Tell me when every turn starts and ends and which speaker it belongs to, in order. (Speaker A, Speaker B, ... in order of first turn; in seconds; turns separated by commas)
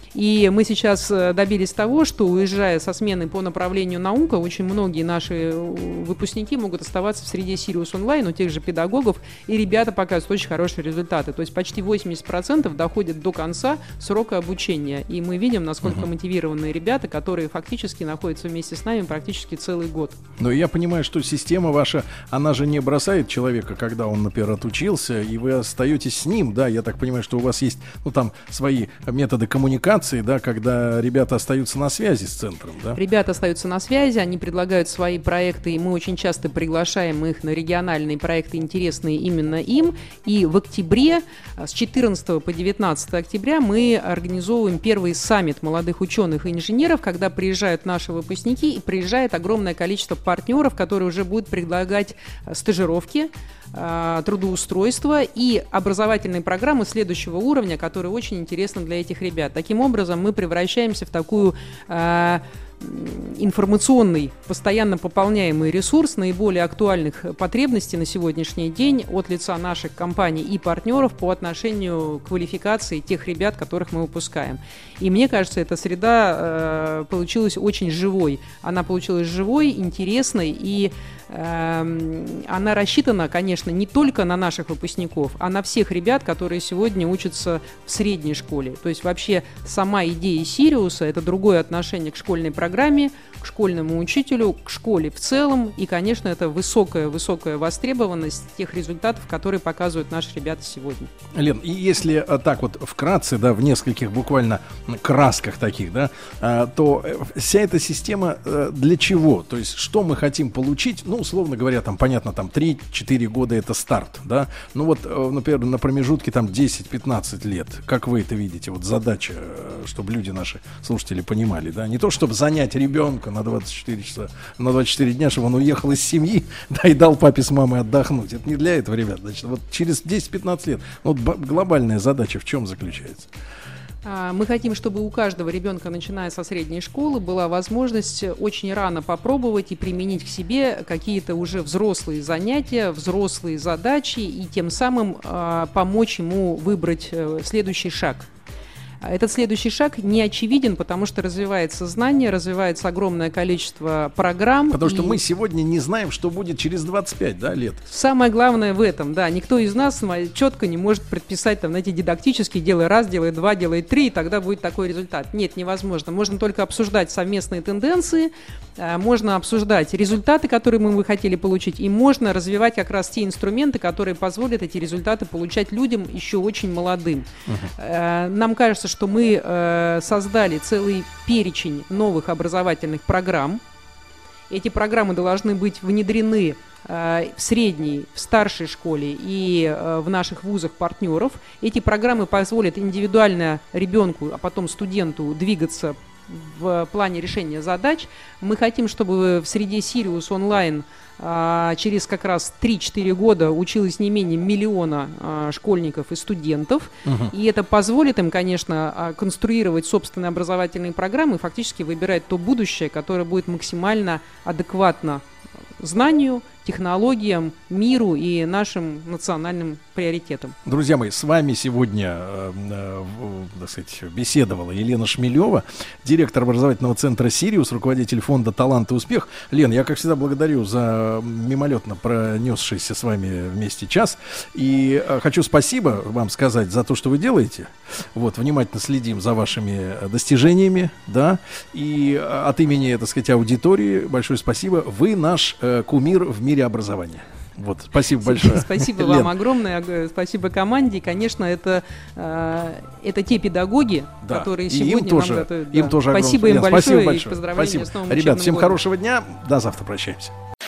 Speaker A: 0.1-20.2, Speaker B: 20.4-33.0, Speaker A: 32.9-101.1, Speaker B: 101.3-133.3, Speaker A: 134.1-148.3, Speaker A: 149.0-155.2, Speaker B: 154.7-157.8, Speaker A: 157.9-183.6, Speaker A: 184.5-215.2, Speaker B: 207.1-207.3, Speaker A: 215.8-220.6, Speaker B: 220.7-249.3, Speaker A: 248.2-258.8, Speaker B: 254.2-260.3